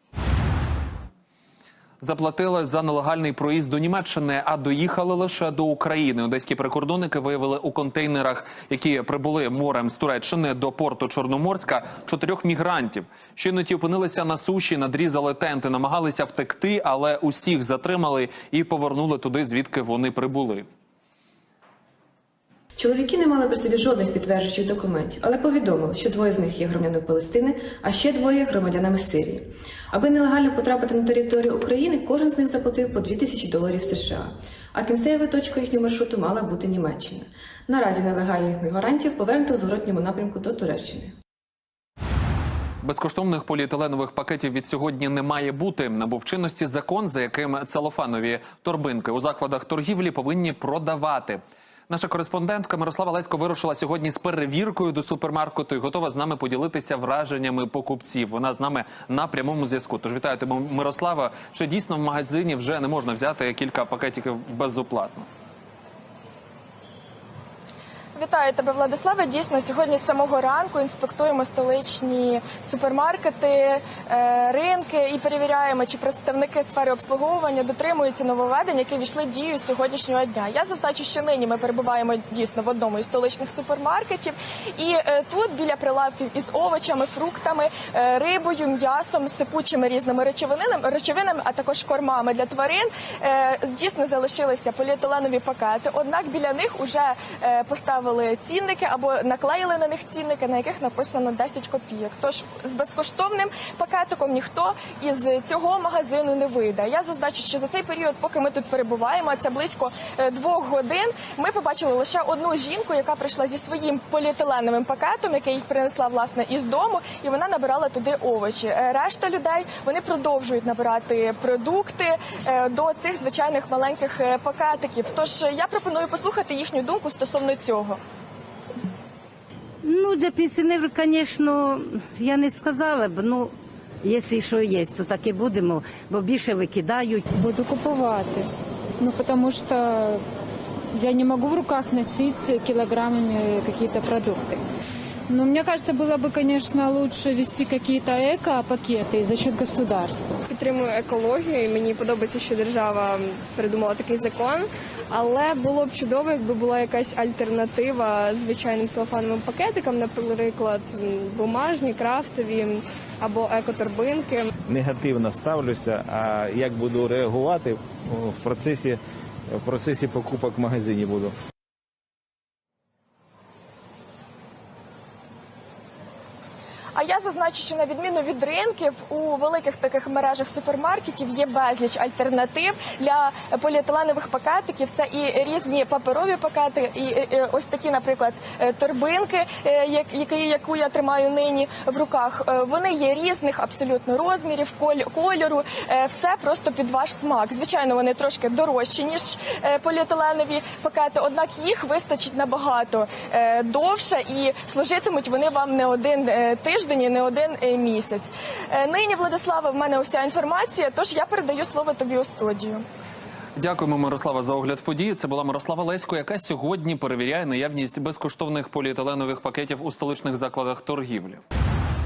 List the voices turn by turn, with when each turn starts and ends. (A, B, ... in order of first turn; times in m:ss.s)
0:02.0-0:20.7 A
0:22.8-0:41.1 B
0:42.8-1:05.3 A
1:08.1-2:08.0 C
2:09.8-2:17.2 D
2:17.3-2:18.5 E
2:19.0-2:20.2 E
2:20.9-2:24.6 E
2:25.3-2:30.4 E
2:30.5-2:44.5 F
2:44.7-2:49.0 G
2:49.5-2:51.3 G
2:56.9-3:32.8 C
3:33.6-3:41.4 A